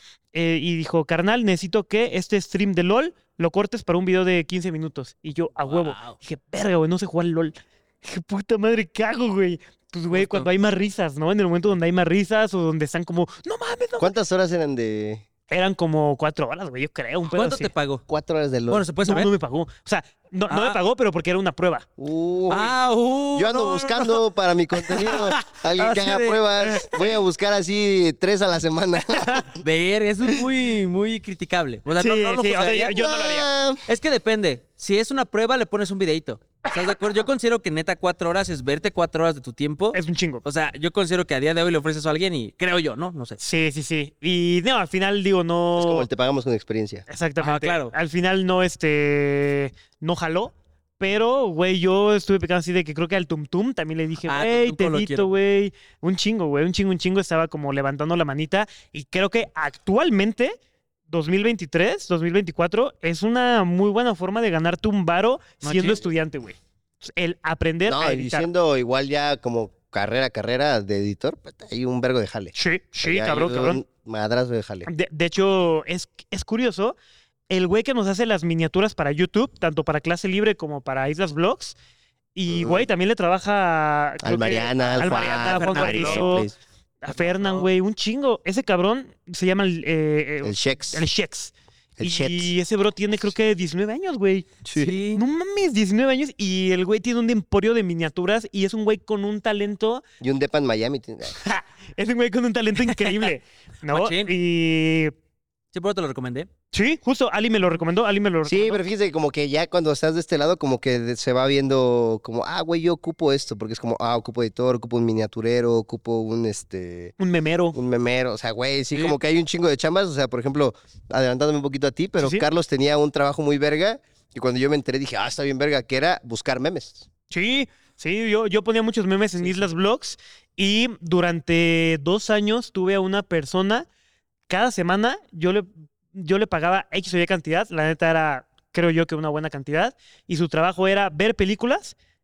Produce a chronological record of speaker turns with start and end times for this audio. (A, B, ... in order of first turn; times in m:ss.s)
0:00.3-0:14.1 A
0:05.6-0:06.2 B
0:10.1-0:10.5 B
0:14.0-0:15.2 C
0:15.5-0:17.7 A
0:17.3-0:18.0 B
0:18.1-0:18.8 C
0:18.7-0:19.3 B
0:19.0-0:21.8 A
0:20.5-0:20.8 B
0:22.0-0:22.7 C
0:22.5-0:24.2 B
0:23.3-0:29.4 C
0:24.8-0:26.4 B
0:29.2-0:29.4 A
0:29.6-0:32.9 B
0:31.9-0:33.5 A
0:32.9-0:33.8 C
0:33.9-0:43.4 B
0:39.9-0:40.4 A
0:43.4-0:46.1 A
0:45.8-0:47.0 C
0:47.1-1:00.6 A
0:47.4-0:47.9 B
0:54.3-0:55.3 B
1:01.1-1:08.5 A
1:05.6-1:06.0 B
1:07.8-1:14.9 C
1:12.6-1:13.8 A
1:14.9-1:16.9 A
1:17.5-1:21.7 A
1:22.3-1:26.5 A
1:22.5-1:22.8 C
1:24.2-1:26.5 C
1:24.9-1:26.4 B
1:27.0-1:40.0 A
1:27.1-1:27.6 B
1:30.4-1:31.0 C
1:32.0-1:32.5 C
1:34.7-1:34.9 C
1:34.7-1:35.2 B
1:40.2-1:41.3 C
1:41.4-1:45.1 A
1:42.9-1:43.3 B
1:43.9-1:44.3 B
1:45.7-1:46.5 B
1:46.7-1:48.8 A
1:48.4-1:57.1 C
1:57.2-1:57.8 A
1:57.7-2:07.0 C
2:07.3-2:13.8 A
2:14.5-2:22.0 A